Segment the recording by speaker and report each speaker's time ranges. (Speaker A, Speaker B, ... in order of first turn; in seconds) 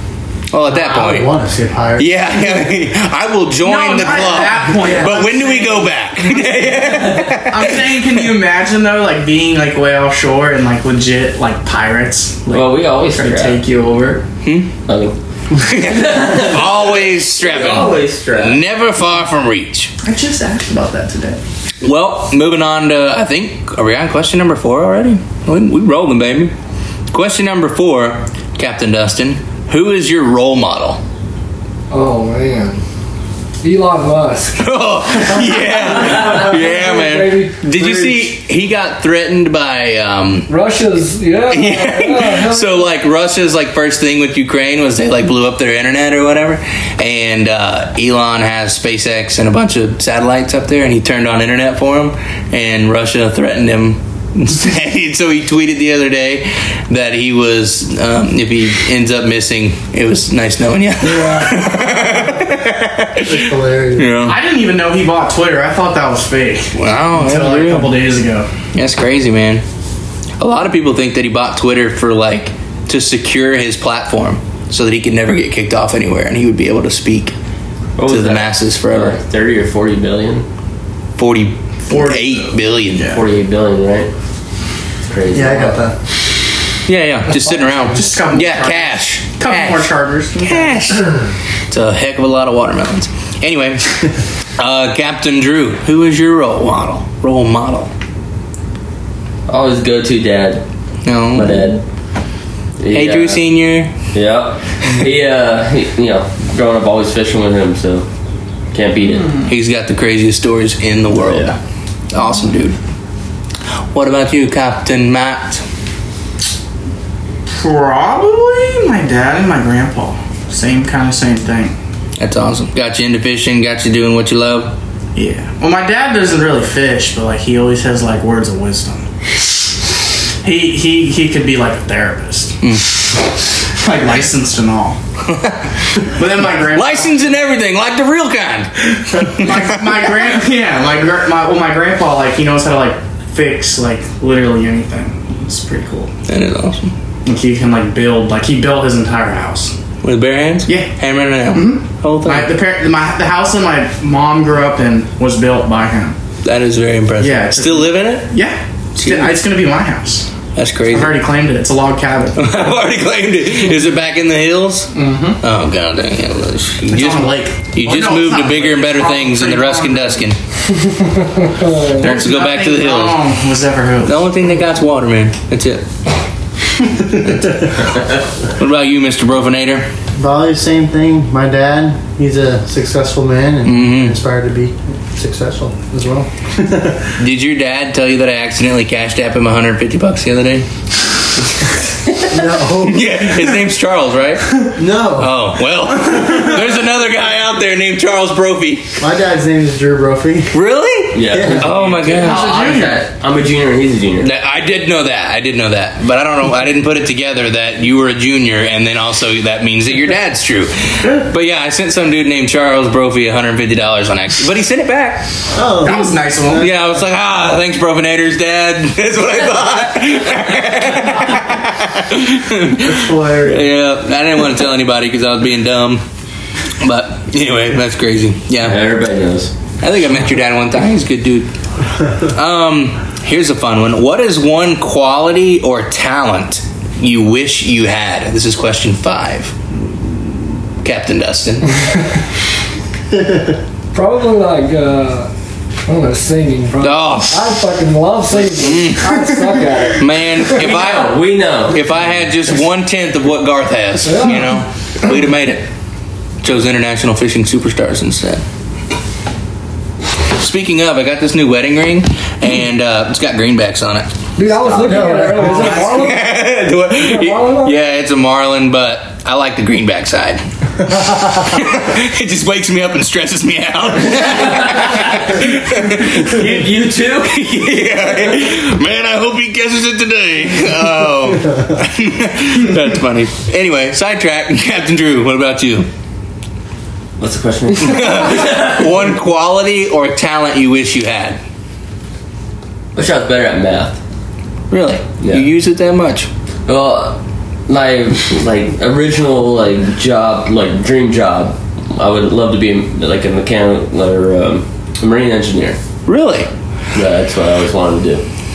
Speaker A: 0.5-1.3, 2.0-8.2, 14.4-14.7, 15.6-19.9, 21.8-26.5, 27.1-31.0, 34.6-40.5, 41.5-64.4, 66.8-68.0, 68.7-69.6, 70.4-77.3, 78.1-79.2, 81.2-83.1, 86.8-91.2, 91.7-97.9, 101.0-101.7, 102.9-103.9, 109.5-111.6, 112.1-112.8, 113.9-115.6, 122.2-124.7, 132.6-132.9, 135.3-135.6, 136.6-140.0, 146.3-146.9, 150.0-152.5, 156.4-158.3, 159.0-159.4, 160.6-161.2, 162.4-170.4, 171.9-173.2, 174.0-175.8, 177.1-179.9, 183.6-184.1, 187.2-190.7, 192.8-198.9, 200.5-202.5, 204.2-215.3, 216.6-226.0, 226.8-228.8, 229.8-231.5, 232.2-239.5, 240.8-241.9, 246.8-247.5, 248.6-249.2, 250.0-255.6, 256.4-258.4, 260.3-264.1, 265.5-276.5, 277.2-285.9, 287.8-291.4, 294.7-296.3, 306.1-306.5
Speaker B: 0.7-2.6, 4.8-5.1, 61.0-62.6, 63.2-64.1, 85.3-86.0, 180.1-187.1, 192.3-193.2, 194.7-195.4, 199.0-200.6, 201.3-201.8, 215.5-216.7, 222.8-223.7, 264.8-265.8
Speaker C: 3.6-6.7, 7.5-14.2, 20.0-21.4, 64.2-68.5, 81.8-83.2, 87.9-91.0, 109.2-109.5, 117.5-121.8, 125.1-129.1, 130.4-132.6, 133.8-135.0, 136.0-137.3, 139.3-146.1, 147.2-149.7, 150.7-150.9, 151.5-156.2, 157.2-160.3, 160.9-162.5, 164.9-165.4, 166.9-170.2, 172.0-174.2, 201.8-203.0, 215.8-216.7
Speaker D: 6.8-7.4, 12.5-13.6, 14.8-18.6, 78.0-80.5, 83.1-84.1, 85.0-85.8, 99.5-100.6, 101.3-101.8, 102.8-103.4, 104.1-108.1, 108.7-109.3, 111.1-111.5, 201.1-204.3, 228.6-229.5, 250.5-251.8, 274.2-277.6, 287.2-288.8, 292.9-294.0, 295.2-295.5, 296.7-305.8, 306.9-308.2
Speaker E: 31.9-32.8, 33.6-34.6, 35.9-37.9, 40.5-42.9, 171.2-172.0, 243.9-245.3, 245.9-250.4, 254.0-254.6, 264.4-266.3, 266.9-267.8